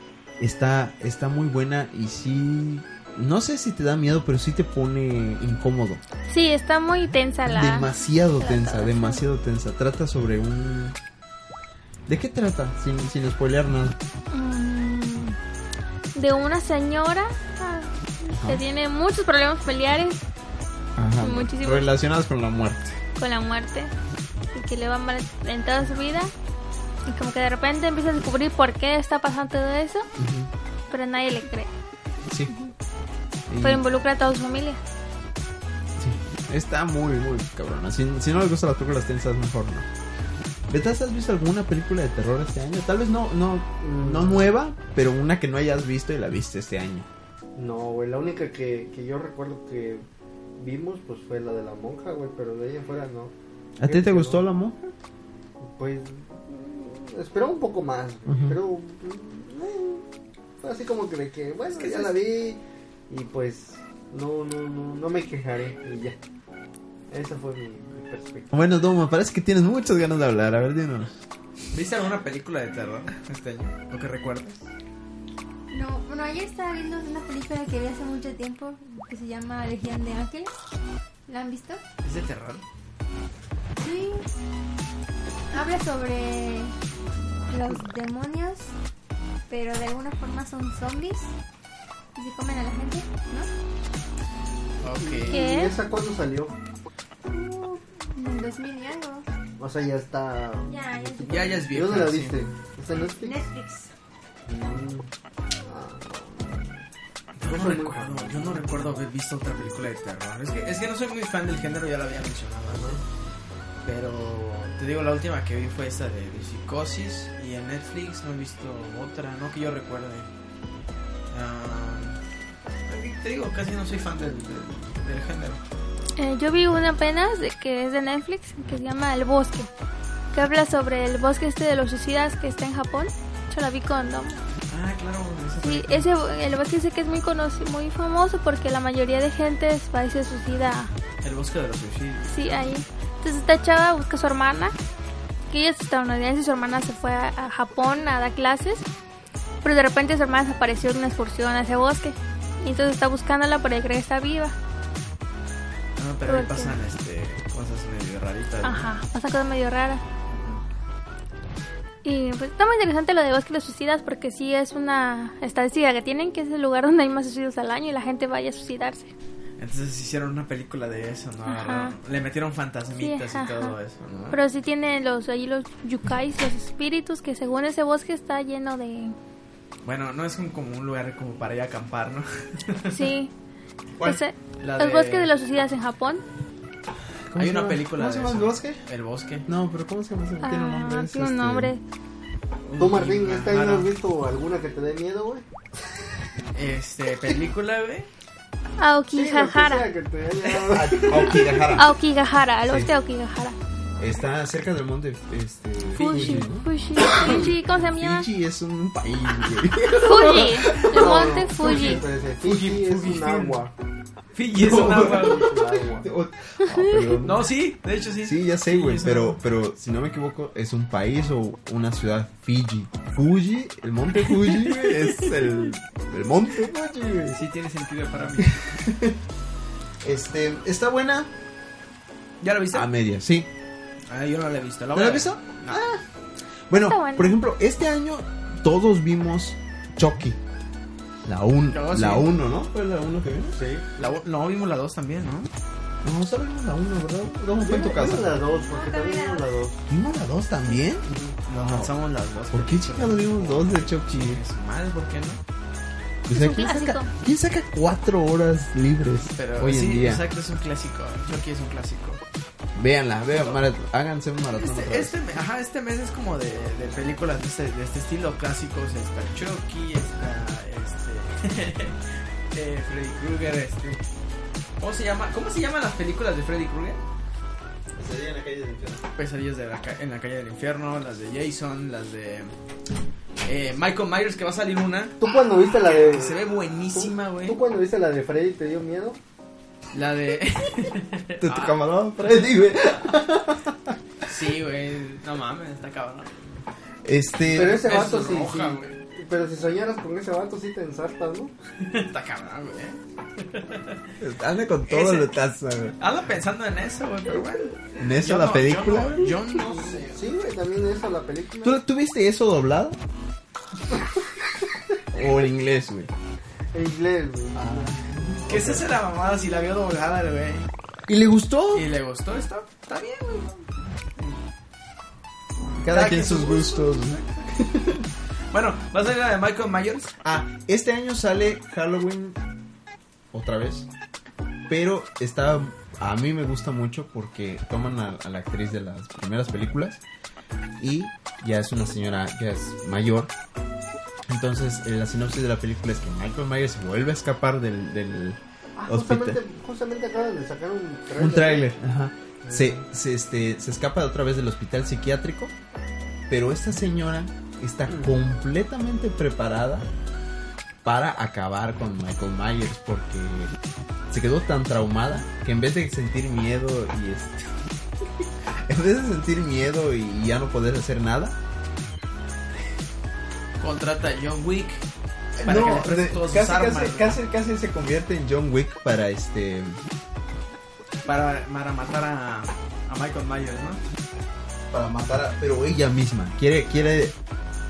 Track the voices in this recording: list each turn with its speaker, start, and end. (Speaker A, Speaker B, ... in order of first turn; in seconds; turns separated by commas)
Speaker A: 0.4-6.0, Speaker B: 6.3-9.2, Speaker A: 7.5-11.0, Speaker A: 12.1-14.0, Speaker B: 14.3-15.4, Speaker B: 16.1-20.2, Speaker A: 18.3-18.6, Speaker A: 20.9-23.0, Speaker B: 21.2-21.9, Speaker B: 23.2-23.9, Speaker B: 24.5-26.3, Speaker B: 27.1-30.1, Speaker A: 30.2-30.5, Speaker B: 30.9-31.7, Speaker A: 33.5-33.8, Speaker B: 33.6-34.8, Speaker A: 36.0-39.9, Speaker A: 40.7-47.1, Speaker C: 43.8-44.5, Speaker C: 47.5-50.0, Speaker C: 50.6-53.3, Speaker A: 53.8-54.9, Speaker C: 53.8-54.4, Speaker C: 55.6-60.0, Speaker A: 58.3-58.6, Speaker C: 60.6-66.2, Speaker A: 61.7-62.1, Speaker C: 67.1-68.5, Speaker A: 68.5-71.2, Speaker D: 71.7-74.6, Speaker E: 75.7-80.5, Speaker E: 81.3-81.8, Speaker D: 82.0-82.6, Speaker E: 83.8-84.2, Speaker E: 85.5-86.7, Speaker E: 87.5-88.7, Speaker E: 89.5-91.3, Speaker E: 92.1-93.5, Speaker D: 94.8-95.5, Speaker C: 95.0-96.5, Speaker B: 95.3-95.8, Speaker E: 97.3-99.2, Speaker C: 99.6-103.4, Speaker E: 100.7-101.6, Speaker D: 101.2-102.4, Speaker E: 103.2-103.9, Speaker C: 104.5-105.1, Speaker C: 105.6-106.8, Speaker D: 107.4-113.0, Speaker C: 107.4-108.8, Speaker C: 112.7-113.0, Speaker D: 113.8-120.3, Speaker D: 121.3-122.2, Speaker D: 122.9-125.6, Speaker B: 126.2-129.7, Speaker B: 130.3-134.4, Speaker D: 134.7-136.1, Speaker B: 135.6-140.9, Speaker D: 141.2-142.7, Speaker B: 142.3-144.7, Speaker B: 145.5-148.8, Speaker B: 149.6-154.6, Speaker D: 156.0-158.9, Speaker B: 156.2-156.7, Speaker B: 158.6-160.0, Speaker D: 160.3-160.6, Speaker B: 162.0-169.1, Speaker D: 169.6-174.4, Speaker B: 171.5-171.9, Speaker B: 173.0-173.7, Speaker B: 174.3-179.1, Speaker D: 179.8-183.1, Speaker B: 182.9-183.3, Speaker B: 184.0-186.2, Speaker D: 184.6-185.3, Speaker A: 187.3-188.8, Speaker D: 187.3-189.5, Speaker A: 189.4-191.7, Speaker B: 190.4-191.8, Speaker D: 192.7-193.9, Speaker C: 192.8-195.4, Speaker D: 196.5-198.1, Speaker B: 198.8-199.9, Speaker C: 199.1-201.4, Speaker D: 200.4-201.5, Speaker A: 200.7-201.9, Speaker B: 201.4-203.6, Speaker A: 204.0-211.1, Speaker D: 205.9-206.5, Speaker B: 206.0-208.3, Speaker D: 207.1-207.5, Speaker D: 209.9-210.8, Speaker B: 209.9-212.0, Speaker C: 210.8-213.7, Speaker D: 211.6-213.7, Speaker D: 214.3-215.6, Speaker A: 214.5-217.5, Speaker C: 214.6-216.1, Speaker B: 216.7-217.1, Speaker D: 217.2-219.4, Speaker A: 218.2-227.4, Speaker D: 224.4-225.4, Speaker D: 227.3-228.7, Speaker A: 228.4-229.2, Speaker A: 230.0-231.3, Speaker D: 232.4-232.9, Speaker A: 232.7-233.5, Speaker D: 234.1-235.8, Speaker A: 234.9-236.0, Speaker A: 236.7-240.4, Speaker B: 236.7-237.4, Speaker A: 241.2-243.6, Speaker D: 241.7-242.3, Speaker C: 243.5-243.8, Speaker D: 243.9-245.5, Speaker A: 246.0-248.4, Speaker C: 247.6-249.8, Speaker E: 248.6-249.6, Speaker A: 249.9-251.9, Speaker C: 251.0-251.4, Speaker D: 251.4-255.4, Speaker A: 252.5-254.4, Speaker A: 256.2-260.3, Speaker B: 256.3-257.1, Speaker D: 259.4-262.2, Speaker A: 262.7-265.1, Speaker D: 264.5-274.0, Speaker D: 274.8-277.0, Speaker A: 277.9-279.0, Speaker D: 279.1-282.5, Speaker D: 283.4-285.2, Speaker C: 285.2-289.2, Speaker D: 285.8-287.6, Speaker D: 289.9-292.7, Speaker A: 291.4-293.9, Speaker D: 294.2-296.4, Speaker A: 297.0-297.9, Speaker C: 297.5-301.5, Speaker D: 297.6-299.0, Speaker D: 301.8-304.1, Speaker A: 304.2-306.0, Speaker D: 304.9-305.3, Speaker D: 306.0-310.2, Speaker A: 307.8-309.5, Speaker C: 309.6-311.8, Speaker A: 311.6-313.0, Speaker A: 315.1-316.1, Speaker C: 316.7-318.4, Speaker A: 317.5-318.9, Speaker D: 318.4-320.7, Speaker A: 321.1-321.9, Speaker D: 321.7-324.4, Speaker A: 325.7-328.1, Speaker D: 325.9-327.5, Speaker D: 328.5-330.2, Speaker A: 330.2-332.4, Speaker A: 333.3-333.9, Speaker A: 334.7-340.0, Speaker A: 340.8-343.3, Speaker A: 344.3-349.4, Speaker C: 348.8-351.7, Speaker A: 351.2-355.5, Speaker C: 352.4-352.8, Speaker A: 356.3-359.9, Speaker A: 360.8-363.5, Speaker A: 364.1-367.6, Speaker A: 368.2-371.4, Speaker D: 373.6-374.8, Speaker A: 375.4-379.8, Speaker D: 375.4-377.2, Speaker D: 381.0-383.8, Speaker A: 384.7-387.1